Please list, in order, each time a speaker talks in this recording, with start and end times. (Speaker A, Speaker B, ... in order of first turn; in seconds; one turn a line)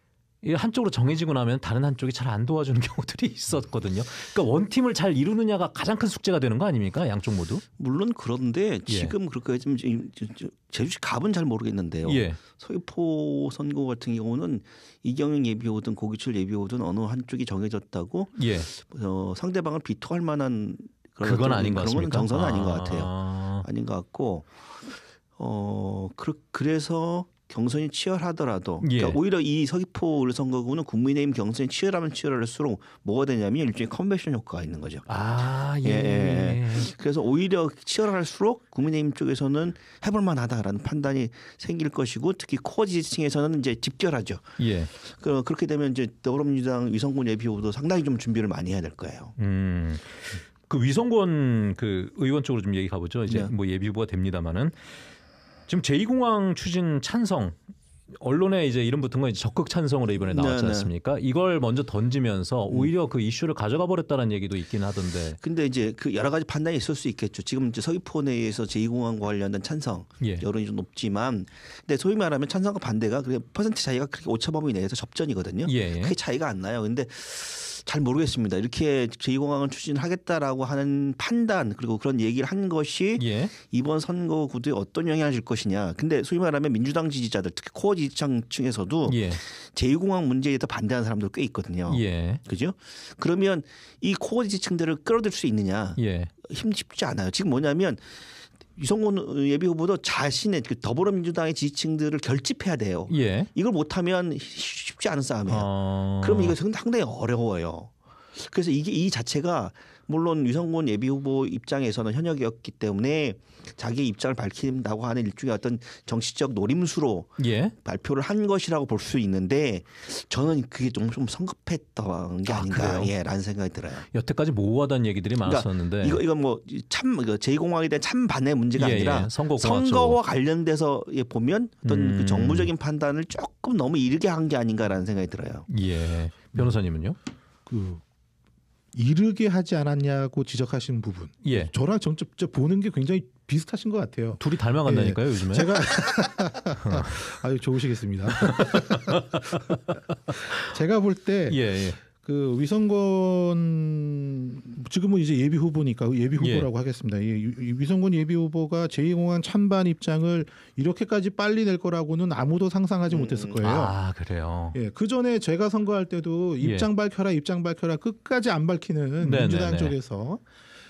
Speaker A: 0.4-7.6
Speaker B: 7.8-35.0
Speaker A: 8.9-9.1
Speaker A: 12.0-12.4
Speaker A: 18.3-18.7
Speaker A: 21.2-23.6
Speaker A: 28.8-29.2
Speaker A: 35.1-36.9
Speaker B: 35.8-49.3
Speaker A: 44.6-44.9
Speaker A: 49.4-54.9
Speaker A: 55.7-57.6
Speaker A: 58.1-65.4
Speaker B: 60.1-60.9
Speaker B: 65.4-124.1
Speaker A: 70.2-70.4
Speaker A: 75.7-76.1
Speaker A: 83.2-83.5
Speaker A: 89.0-89.4
Speaker A: 91.9-92.4
Speaker A: 96.0-96.3
Speaker A: 103.1-103.5
Speaker A: 105.5-106.5
Speaker A: 117.4-117.7
Speaker A: 122.5-123.1
Speaker A: 124.1-126.2
Speaker B: 125.4-135.7
Speaker A: 128.8-130.2
Speaker A: 131.8-132.7
Speaker A: 135.7-137.2
Speaker C: 137.7-138.0
Speaker C: 138.9-149.2
Speaker A: 141.4-141.7
Speaker A: 144.4-146.3
Speaker A: 146.8-147.3
Speaker A: 148.3-150.6
Speaker C: 150.5-164.0
Speaker A: 151.5-152.0
Speaker A: 156.4-156.7
Speaker B: 163.1-163.6
Speaker A: 163.6-164.8
Speaker C: 164.7-170.4
Speaker A: 166.6-166.9
Speaker A: 169.2-169.9